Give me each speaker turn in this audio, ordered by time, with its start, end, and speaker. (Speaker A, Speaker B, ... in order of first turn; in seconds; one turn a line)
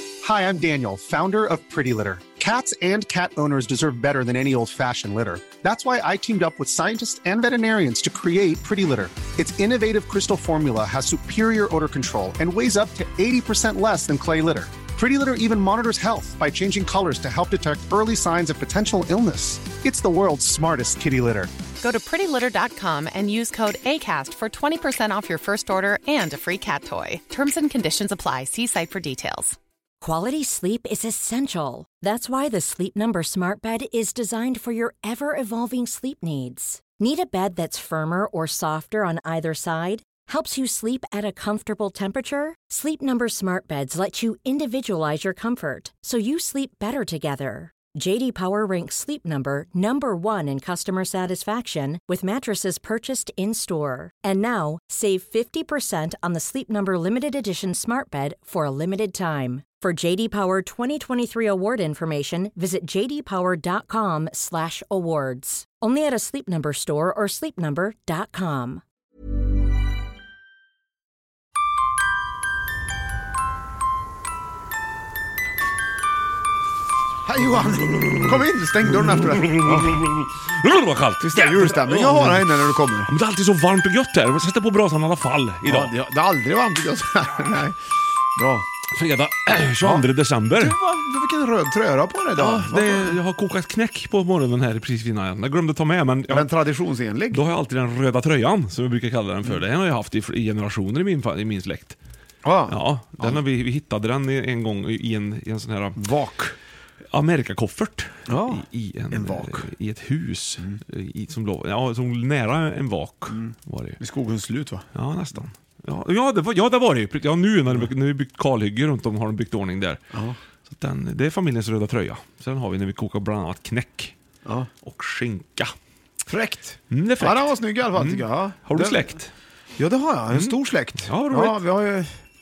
Speaker A: 0.2-21.7
Speaker B: 21.7-29.6
Speaker C: 30.0-68.8
Speaker D: 77.2-80.0
Speaker E: 79.6-85.9
Speaker D: 81.2-83.1
Speaker D: 85.6-87.8
Speaker D: 88.3-88.7
Speaker E: 88.9-90.8
Speaker D: 89.8-93.2
Speaker E: 92.3-96.5
Speaker D: 96.3-97.4
Speaker E: 97.3-102.0
Speaker D: 102.4-103.4
Speaker E: 102.7-106.0
Speaker D: 106.0-106.5
Speaker E: 107.1-114.0
Speaker D: 108.3-109.7
Speaker D: 113.3-114.8
Speaker E: 114.9-120.0
Speaker D: 120.1-120.4
Speaker E: 120.7-124.1
Speaker E: 124.8-125.7
Speaker D: 126.3-129.2
Speaker E: 126.9-129.3
Speaker D: 129.8-132.1
Speaker E: 130.3-131.6